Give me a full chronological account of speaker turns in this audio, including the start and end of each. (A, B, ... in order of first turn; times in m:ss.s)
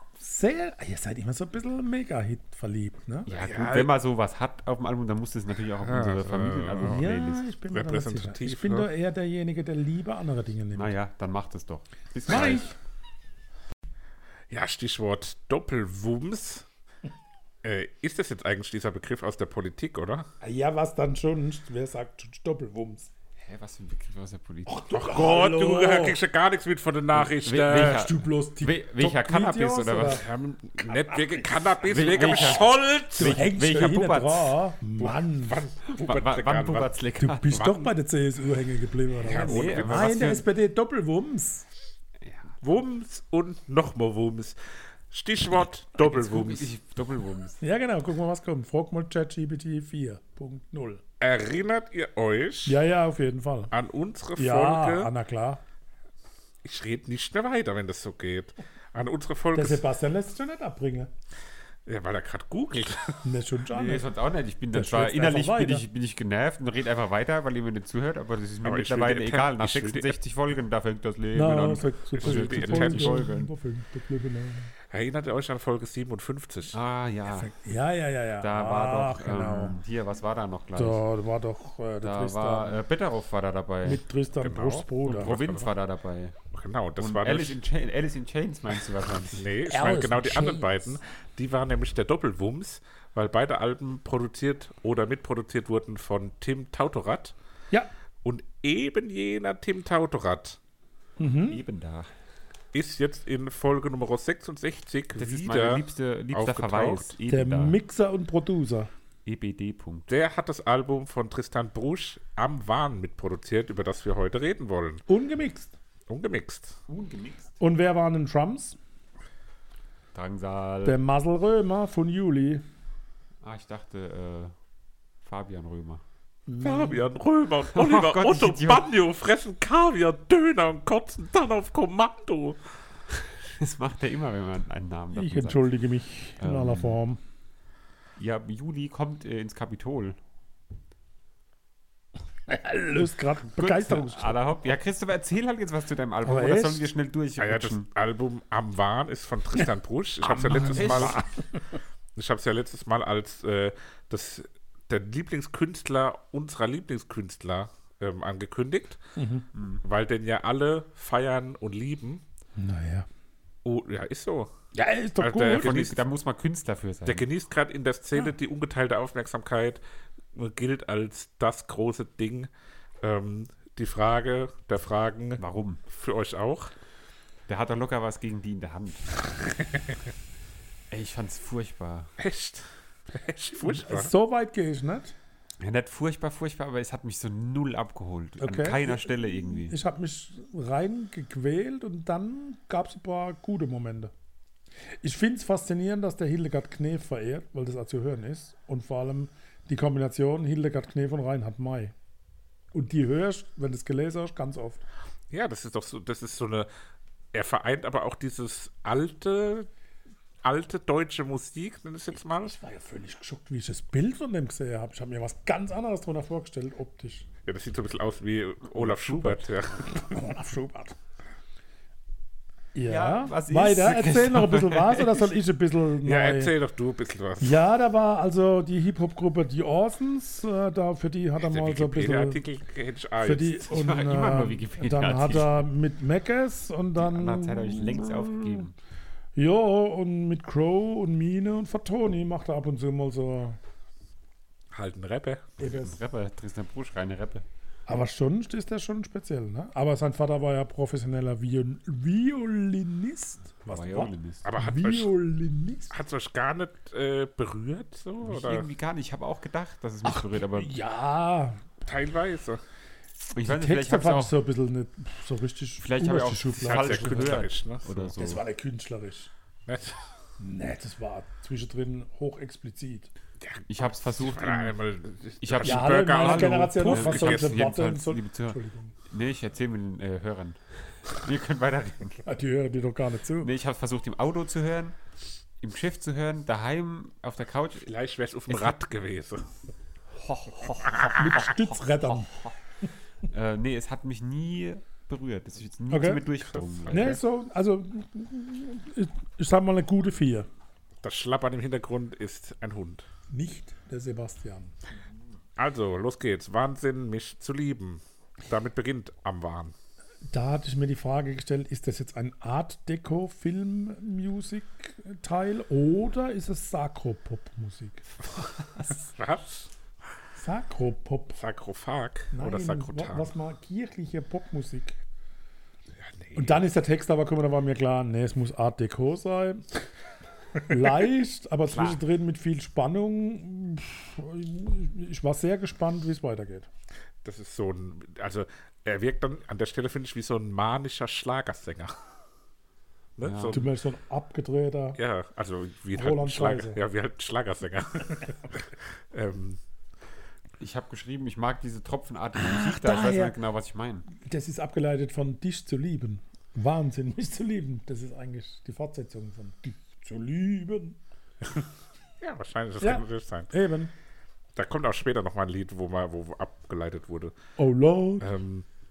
0:00.2-0:03.3 A
0:03.3-0:07.4 B
0:03.3-0:03.9 C
0:05.8-0:07.1 C
0:06.8-0:10.9 A
0:07.7-0:08.9 C
0:10.8-0:12.7 B
0:12.3-0:12.7 A
0:14.5-0:16.6 C
0:17.6-0:20.3 C
0:20.4-0:23.1 A
0:23.4-0:24.9 B
0:24.7-0:26.2 A
0:24.9-0:28.1 C
0:27.1-0:30.3 B
0:27.7-0:30.2 A
0:30.0-0:33.5 C
0:31.8-0:34.5 B
0:33.2-0:35.6 A
0:35.0-0:36.9 C
0:35.9-0:37.8 B
0:37.2-0:41.6 A
0:37.5-0:37.9 C
0:39.2-0:40.2 C
0:39.3-0:40.4 B
0:42.2-0:42.6 B
0:42.6-0:44.6 C
0:45.1-0:46.7 C
0:46.0-0:47.6 B
0:47.6-0:51.0 A
0:51.2-0:52.8 C
0:52.6-0:53.7 A
0:53.7-0:55.1 C
0:54.4-0:55.6 A
0:56.6-0:59.8 C
0:59.5-1:01.1 A
1:01.9-1:03.2 C
1:03.2-1:04.1 A
1:03.7-1:13.5 B
1:04.7-1:05.8 A
1:08.6-1:10.2 C
1:11.3-1:14.7 A
1:12.2-1:13.2 C
1:14.9-1:16.8 C
1:16.7-1:17.5 B
1:17.3-1:19.8 A
1:18.4-1:21.0 B
1:20.8-1:22.8 A
1:22.0-1:24.0 B
1:23.8-1:25.3 A
1:24.4-1:25.7 C
1:25.0-1:26.4 B
1:26.5-1:27.6 C
1:27.0-1:29.4 B
1:29.4-1:37.4 C
1:29.7-1:30.8 A
1:38.2-1:40.6 C
1:41.2-1:41.6 A
1:41.5-1:42.1 B
1:42.7-1:47.2 C
1:45.2-1:47.8 B
1:47.3-1:48.9 A
1:49.3-1:50.1 B
1:50.1-1:55.0 C
1:55.1-1:55.7 A
1:56.1-1:56.8 C
1:56.9-1:57.6 B
1:57.6-1:58.8 A
2:00.1-2:01.0 B
2:00.8-2:02.6 A
2:03.4-2:04.5 B
2:05.2-2:06.0 B
2:06.5-2:07.0 A
2:06.6-2:12.6 C
2:07.7-2:08.8 B
2:13.1-2:15.7 B
2:15.1-2:17.2 A
2:16.4-2:17.0 B
2:18.2-2:20.2 B
2:22.5-2:24.4 A
2:23.5-2:27.9 B
2:26.2-2:26.9 A
2:27.4-2:31.2 C
2:30.4-2:31.2 B
2:30.4-2:31.3 A
2:32.2-2:39.0 C
2:39.2-2:39.5 A
2:39.5-2:39.8 B
2:39.8-2:42.2 C
2:42.6-2:43.1 A
2:43.6-2:44.5 C
2:44.7-2:45.7 A
2:45.2-2:46.0 C
2:45.4-2:47.3 B
2:47.1-2:49.8 C
2:50.3-2:52.5 C
2:53.0-2:56.7 C
2:55.4-2:55.8 B
2:57.5-2:59.1 B
3:00.9-3:02.1 B
3:02.2-3:04.1 C
3:03.6-3:05.1 A
3:05.6-3:09.8 B
3:08.4-3:14.1 A
3:15.0-3:21.9 A
3:22.7-3:24.8 A
3:25.3-3:26.7 C
3:27.3-3:29.7 C
3:30.4-3:32.5 C
3:32.4-3:37.3 A
3:37.4-3:40.2 C
3:38.8-3:41.0 A
3:42.8-3:46.5 A
3:42.9-3:45.3 B
3:46.0-3:47.6 C
3:47.4-3:52.4 A
3:51.4-3:53.7 C
3:53.2-3:58.6 A
3:53.7-3:55.6 B
3:57.0-3:58.8 B
3:59.4-4:03.6 A
4:04.7-4:05.6 C
4:05.6-4:06.0 A
4:05.6-4:07.4 B
4:07.9-4:15.9 A
4:13.7-4:14.5 B
4:14.4-4:15.1 C
4:15.9-4:18.7 C
4:18.2-4:20.7 B
4:20.1-4:21.6 A
4:21.8-4:22.6 C
4:23.3-4:24.3 B
4:23.4-4:27.4 A
4:25.8-4:28.4 B
4:26.6-4:28.1 C
4:28.2-4:29.3 A
4:29.7-4:30.1 C
4:30.4-4:33.1 A
4:33.4-4:37.7 C
4:33.7-4:34.8 B
4:35.4-4:38.6 B
4:35.6-4:38.9 A
4:39.1-4:42.2 B
4:42.2-4:43.5 A
4:43.4-4:45.0 B
4:45.6-4:47.9 B
4:47.8-4:49.5 C
4:50.2-4:52.5 B
4:50.8-4:51.5 C
4:51.1-4:52.3 A
4:53.3-4:57.2 B
4:55.9-4:56.3 A
4:56.4-4:57.2 C
4:56.9-5:00.5 A
5:01.0-5:03.1 C
5:03.3-5:04.8 A
5:05.6-5:09.8 C
5:10.3-5:18.1 A
5:19.1-5:19.7 C
5:20.4-5:21.4 A
5:21.4-5:23.3 C
5:22.3-5:25.0 A
5:26.0-5:26.7 C
5:26.4-5:29.7 A
5:30.7-5:36.7 A
5:31.7-5:32.0 B
5:37.2-5:42.0 C
5:43.2-5:43.6 C
5:43.2-5:43.6 B
5:43.5-5:45.0 A
5:45.0-5:49.6 C
5:45.9-5:46.8 A
5:50.6-5:54.1 B
5:52.4-5:53.4 A
5:54.2-6:01.0 A
6:02.2-6:03.5 C
6:02.8-6:03.9 A
6:04.6-6:07.3 C
6:07.6-6:08.3 A
6:08.2-6:08.6 C